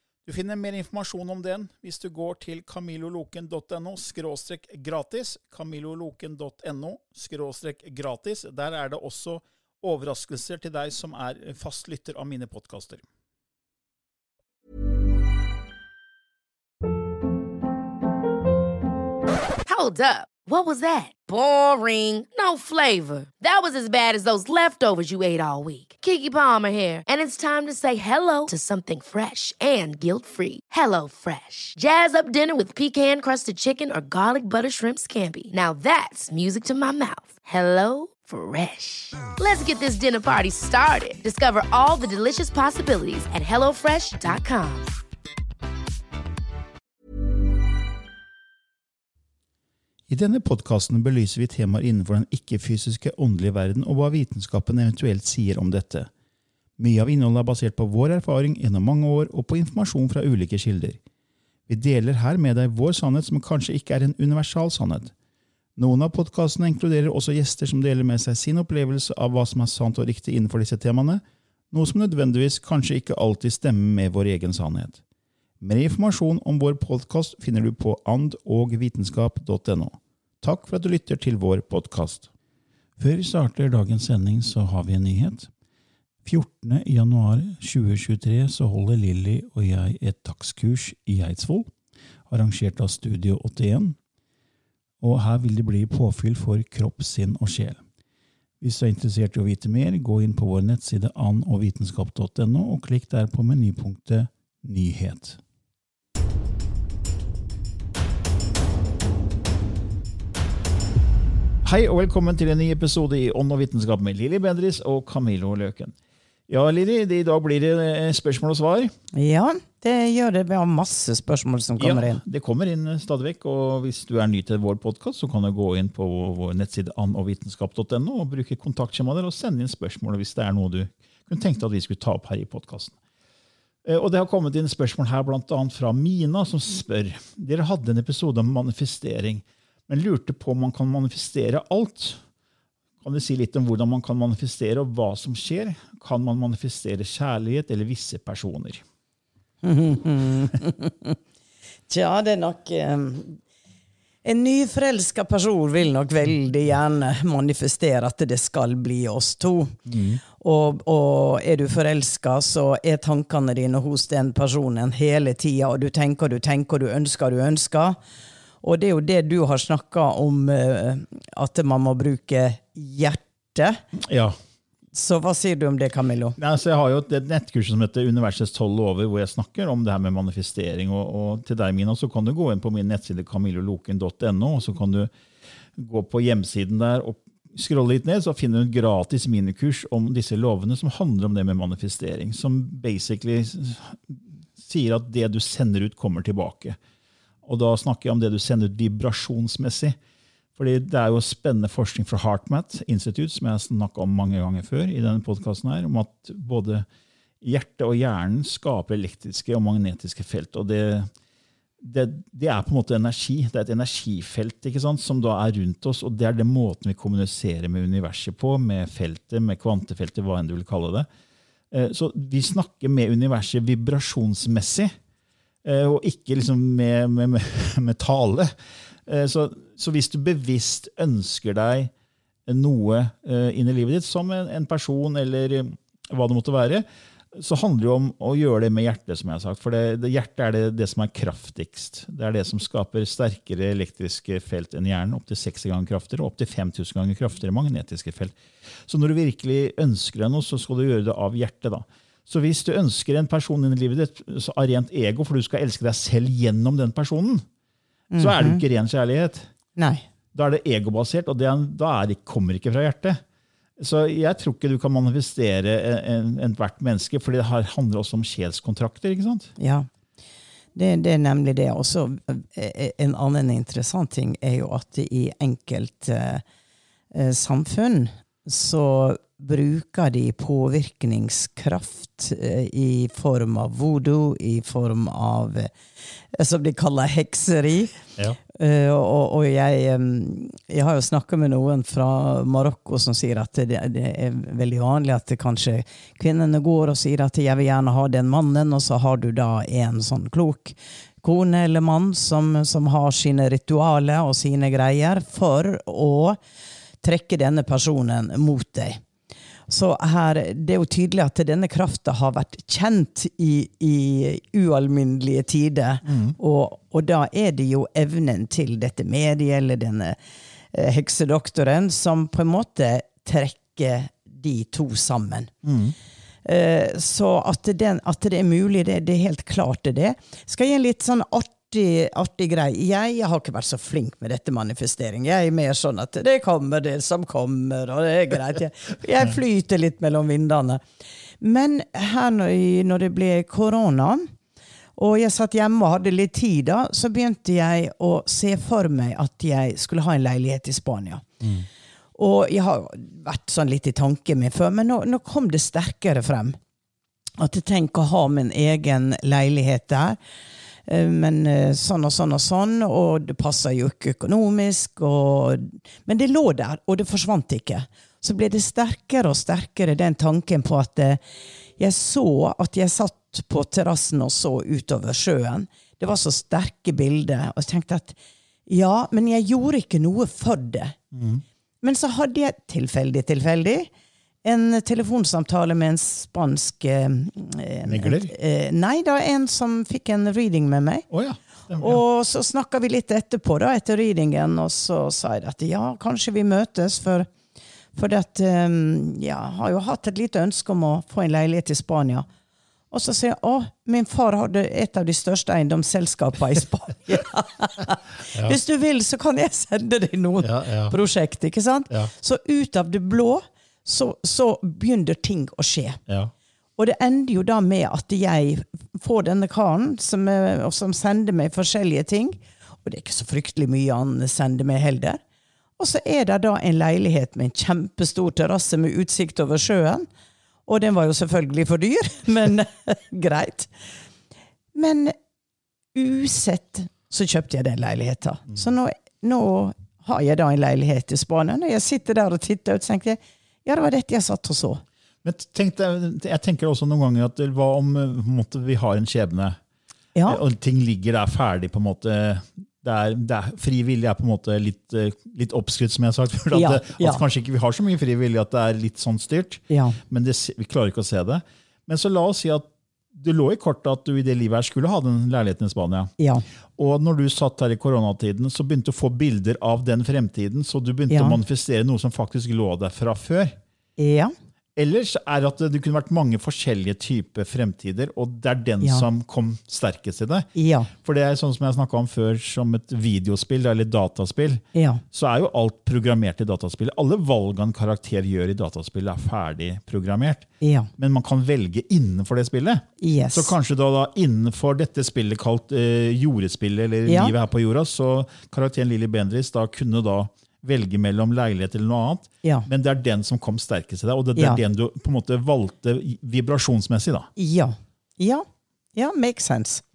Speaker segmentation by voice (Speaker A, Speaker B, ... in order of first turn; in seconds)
Speaker A: 0.2-13.1, 50.1-56.1, 56.8-61.0, 61.7-65.1, 65.8-75.0, 75.6-82.3, 83.0-85.5, 86.2-91.7, 92.3-94.0, 95.0-97.8, 98.6-105.4, 111.6-116.0, 116.5-118.9, 121.8-133.0, 133.8-142.2, 143.0-148.8, 159.9-160.2, 174.0-174.4, 176.4-185.1, 185.8-196.8, 197.4-200.0, 200.6-206.9, 207.4-211.1, 211.8-221.1, 221.7-224.9, 225.6-228.5, 229.1-231.9, 232.5-257.4, 258.2-259.5, 260.3-263.2, 263.8-269.5, 316.1-316.4, 325.6-325.9, 381.1-381.4, 387.9-388.3, 391.1-392.0, 408.3-408.6, 410.4-410.9, 445.2-449.6, 450.3-466.1, 466.8-473.5, 474.8-507.3
Speaker B: 19.7-44.9
Speaker C: 119.1-122.2, 149.6-151.2, 151.9-153.4, 154.2-168.0, 168.6-173.8, 174.9-176.4, 258.1-258.6, 259.8-260.1, 269.6-269.9, 270.8-276.4, 277.1-285.7, 286.3-306.4, 307.0-309.0, 309.7-320.2, 320.7-325.5, 326.4-340.8, 341.4-344.3, 345.0-351.4, 352.1-356.6, 357.4-360.2, 360.9-371.2, 371.8-381.0, 381.8-383.9, 384.4-391.1, 391.8-397.3, 397.9-402.3, 402.9-416.0, 416.8-425.2, 425.8-430.1, 430.7-433.7, 434.7-435.1, 435.9-444.8, 450.1-450.4, 456.5-457.2, 459.7-460.0, 466.2-466.4, 471.1-471.4, 474.0-474.3, 478.8-479.1, 480.6-480.9, 484.7-485.0, 490.6-490.9, 493.0-493.5, 497.1-497.4, 502.4-502.7, 504.4-504.6, 507.4-509.8